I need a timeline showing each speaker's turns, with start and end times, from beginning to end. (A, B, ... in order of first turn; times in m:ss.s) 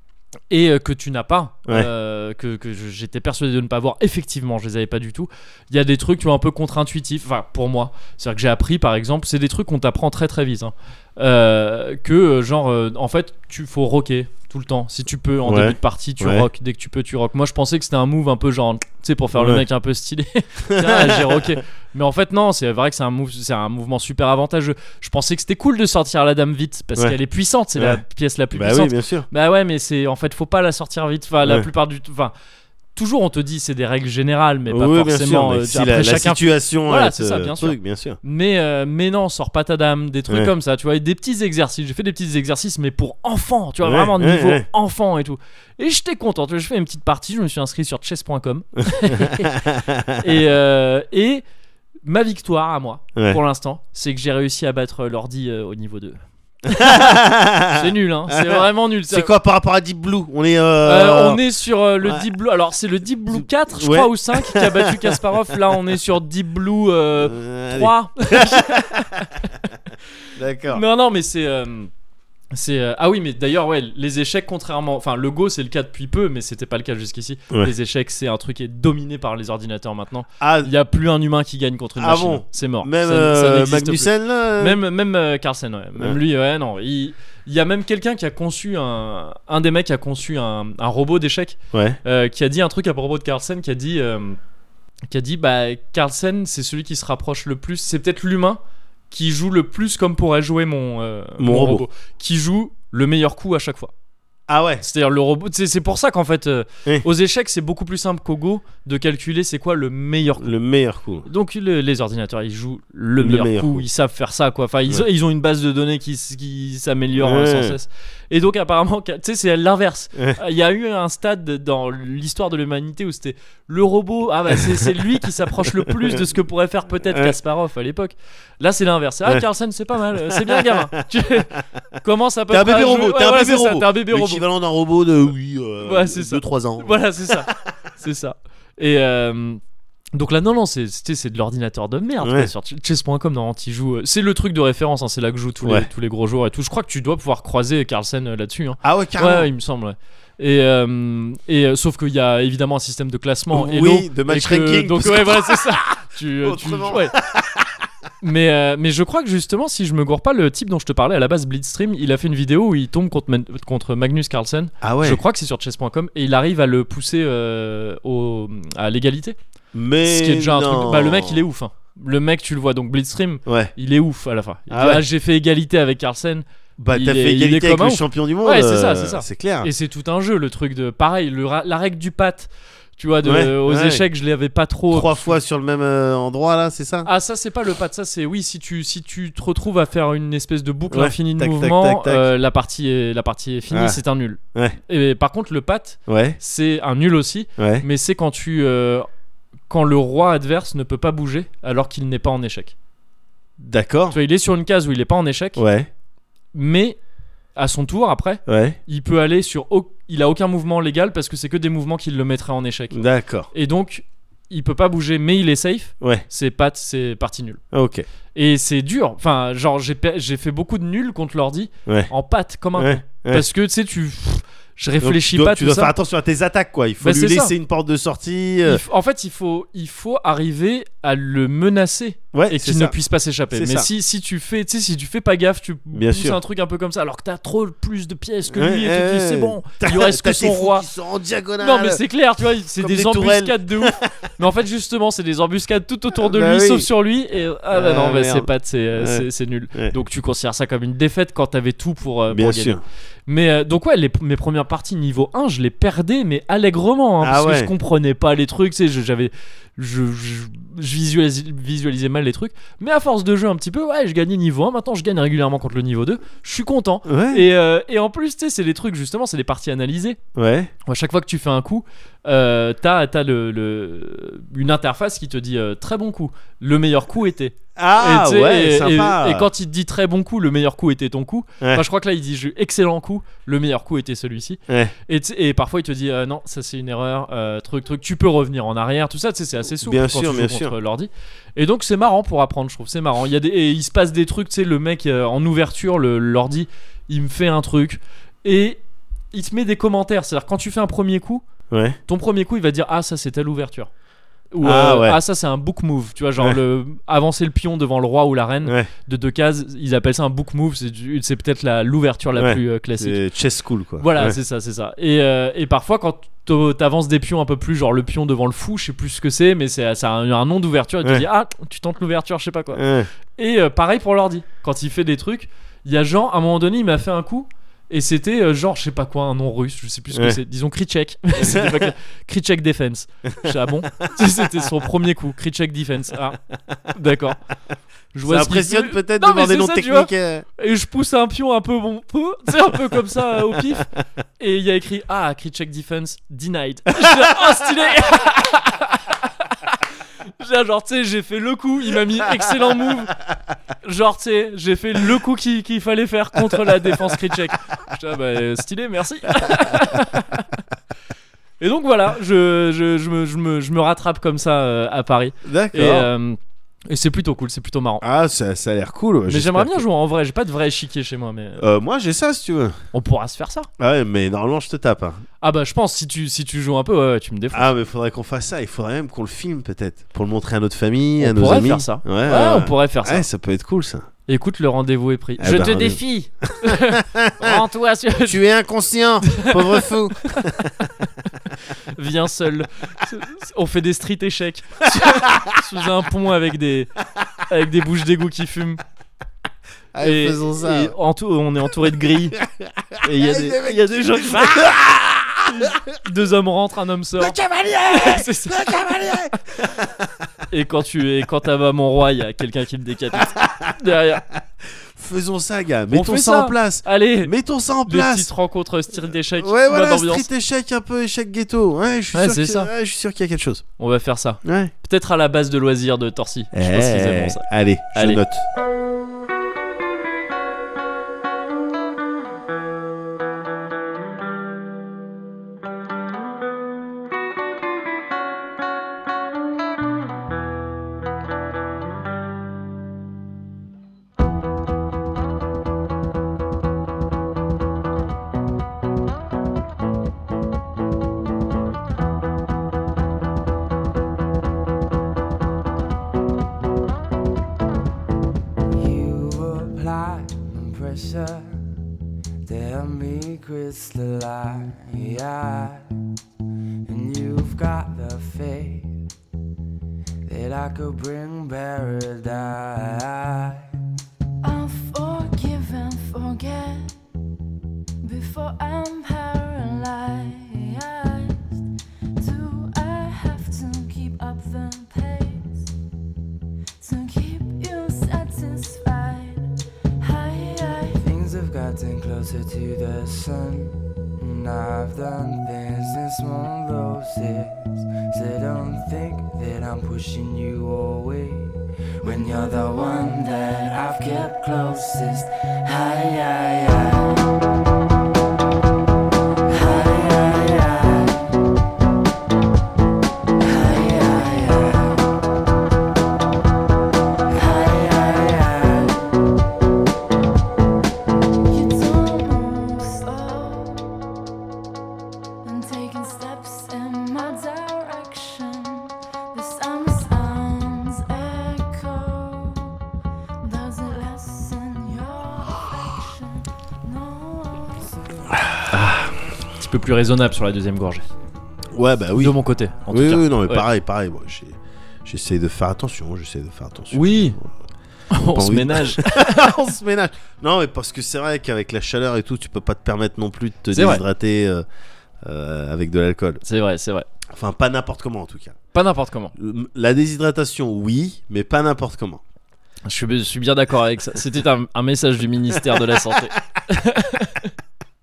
0:00.5-0:32.3 A
0:15.4-0:16.5 B
0:19.4-0:19.6 B
0:20.7-0:21.6 B
0:28.5-0:29.3 B
0:33.0-0:51.4 A
0:34.7-0:38.2 B
0:43.8-0:44.7 B
0:49.0-0:50.2 B
0:52.0-0:59.3 A
0:56.7-1:01.4 B
1:00.8-1:09.5 A
1:03.3-1:05.2 B
1:07.2-1:09.3 B
1:10.4-1:10.8 B
1:10.7-1:11.9 A
1:12.5-1:34.4 A
1:20.4-1:20.7 B
1:22.0-1:24.8 B
1:31.7-1:32.0 B
1:35.1-1:43.9 A
1:41.4-1:41.8 B
1:44.5-1:44.8 B
1:44.8-1:50.6 A
1:50.4-1:51.3 B
1:51.3-2:14.4 A
1:53.2-1:53.9 B
1:57.2-1:57.8 B
2:05.8-2:06.2 B
2:07.1-2:07.4 B
2:10.2-2:10.9 B
2:12.5-2:17.6 B
2:15.8-2:19.6 A
2:20.1-2:37.2 A
2:22.2-2:22.5 B
2:28.8-2:29.5 B
2:33.5-2:37.8 B
2:38.2-2:49.4 A
2:44.8-2:45.2 B
2:49.7-2:51.5 B
2:50.0-3:05.3 A
2:53.5-2:53.7 B
2:54.7-2:55.0 B
2:56.8-2:59.7 B
3:03.2-3:04.0 B
3:04.9-3:07.1 B
3:07.0-3:19.1 A
3:10.9-3:12.3 B
3:13.7-3:14.0 B
3:16.1-3:16.4 B
3:17.6-3:17.9 B
3:19.7-3:22.7 A
3:23.6-3:24.2 B
3:24.1-3:25.6 A
3:25.6-3:25.9 B
3:26.5-3:27.0 A
3:27.6-3:33.0 A
3:28.5-3:28.8 B
3:32.9-3:33.5 B
3:33.5-3:37.6 A
3:37.7-3:38.1 B
3:38.4-3:45.9 A
3:42.8-3:43.4 B
3:45.0-3:48.8 B
3:47.0-3:47.5 A
3:48.6-4:00.9 A
3:52.3-3:53.0 B
3:53.5-3:53.9 B
3:55.9-3:56.4 B
3:58.5-4:02.0 B
4:01.6-4:12.8 A
4:02.8-4:04.3 B
4:06.2-4:06.9 B
4:07.7-4:09.9 B
4:12.3-4:12.8 B
4:13.3-4:30.2 A
4:17.2-4:17.7 B
4:27.1-4:27.4 B
4:30.4-4:30.7 B
4:30.9-4:58.8 A
4:37.8-4:39.5 B
4:44.7-4:44.9 B
4:49.8-4:50.8 B
4:59.3-5:01.4 A
5:01.7-5:02.0 B
5:02.1-5:03.9 A
5:04.5-5:13.2 A
5:04.6-5:05.2 B
5:08.6-5:08.9 B
5:12.4-5:14.4 B
5:14.0-5:22.8 A
5:22.8-5:23.1 B
5:23.4-5:36.4 A
5:30.1-5:30.4 B
5:31.4-5:31.9 B
5:33.4-5:34.5 B
5:36.9-5:37.4 A
5:38.1-5:53.2 A
5:38.3-5:40.4 B
5:47.0-5:47.5 B
5:53.8-6:00.6 A
5:59.5-6:00.0 B
6:01.6-6:08.0 A
6:05.4-6:06.1 B
6:08.0-6:09.8 B
6:09.3-6:11.6 A
6:11.6-6:12.8 B
6:12.9-6:13.7 A
6:13.8-6:15.2 B
6:15.4-6:17.7 A
6:17.5-6:24.1 B
6:21.2-6:23.3 A
6:24.3-6:28.4 A
6:25.4-6:27.6 B
6:28.2-6:30.9 B
6:29.3-6:30.4 A
6:31.9-6:36.9 A
6:35.0-6:35.6 B
6:37.5-6:38.8 A
6:39.9-6:40.9 B
6:40.0-6:42.4 A
6:42.4-6:46.0 B
6:43.0-6:44.8 A
6:45.4-6:48.9 A
6:47.2-6:50.3 B
6:50.5-6:54.2 A
6:53.2-6:53.7 B
6:54.6-6:58.3 B
6:55.9-6:57.3 A
6:57.8-7:00.3 A
6:59.4-7:03.6 B
7:02.1-7:02.7 A
7:03.8-7:08.2 A
7:04.4-7:04.7 B
7:06.5-7:08.5 B
7:38.7-7:41.6 C
7:42.5-7:45.9 C
7:46.9-7:49.0 C
7:50.3-7:53.7 C
7:54.4-7:57.0 D
7:58.0-8:01.6 D
8:02.2-8:05.7 D
8:06.8-8:11.1 D
8:11.0-8:27.1 C
8:29.5-8:31.2 C
8:33.4-8:35.0 D
8:33.6-8:34.3 C
8:37.3-8:39.0 D
8:41.5-8:44.0 D
8:45.4-8:52.8 D
8:53.4-8:58.0 D
8:58.7-9:01.1 A
9:01.7-9:02.4 B
9:02.2-9:03.6 A
9:02.9-9:07.5 B
9:06.9-9:07.4 A
9:08.1-9:09.4 A
9:08.3-9:14.6 B
9:13.7-9:14.0 A
9:15.2-9:16.4 B
9:16.4-9:17.1 A
9:17.3-9:18.6 B
9:18.7-9:19.3 A
9:19.4-9:22.2 B
9:22.9-9:27.5 A
9:25.7-9:26.2 B